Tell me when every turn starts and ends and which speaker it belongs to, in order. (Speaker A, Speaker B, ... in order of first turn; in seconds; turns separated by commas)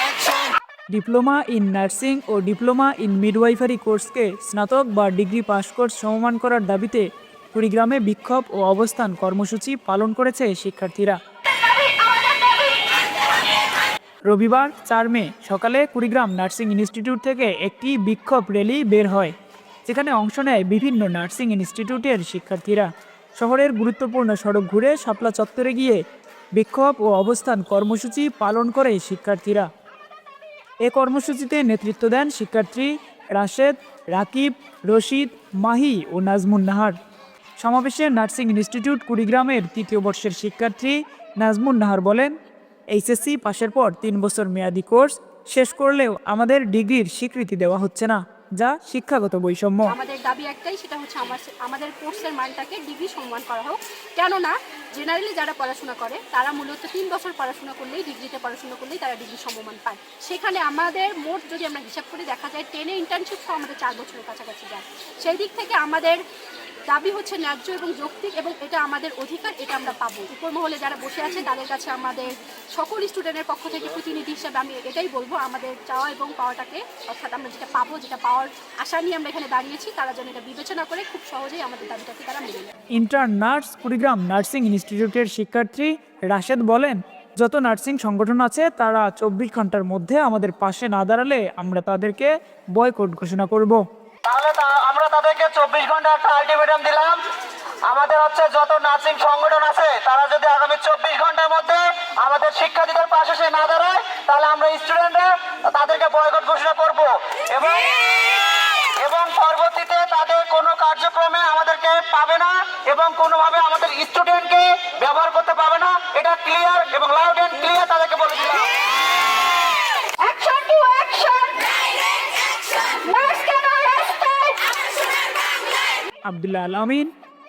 Speaker A: 0.9-11.2, Speaker B: 12.0-12.3, Speaker A: 14.3-19.3, Speaker A: 19.9-26.0, Speaker A: 26.6-29.7, Speaker A: 30.8-37.0, Speaker A: 37.6-42.3, Speaker A: 42.9-49.9, Speaker B: 49.9-66.2, Speaker B: 66.9-82.7, Speaker A: 82.9-93.8, Speaker C: 94.2-97.2, Speaker C: 97.9-118.7, Speaker B: 120.2-122.0, Speaker B: 122.7-124.8, Speaker A: 126.2-127.1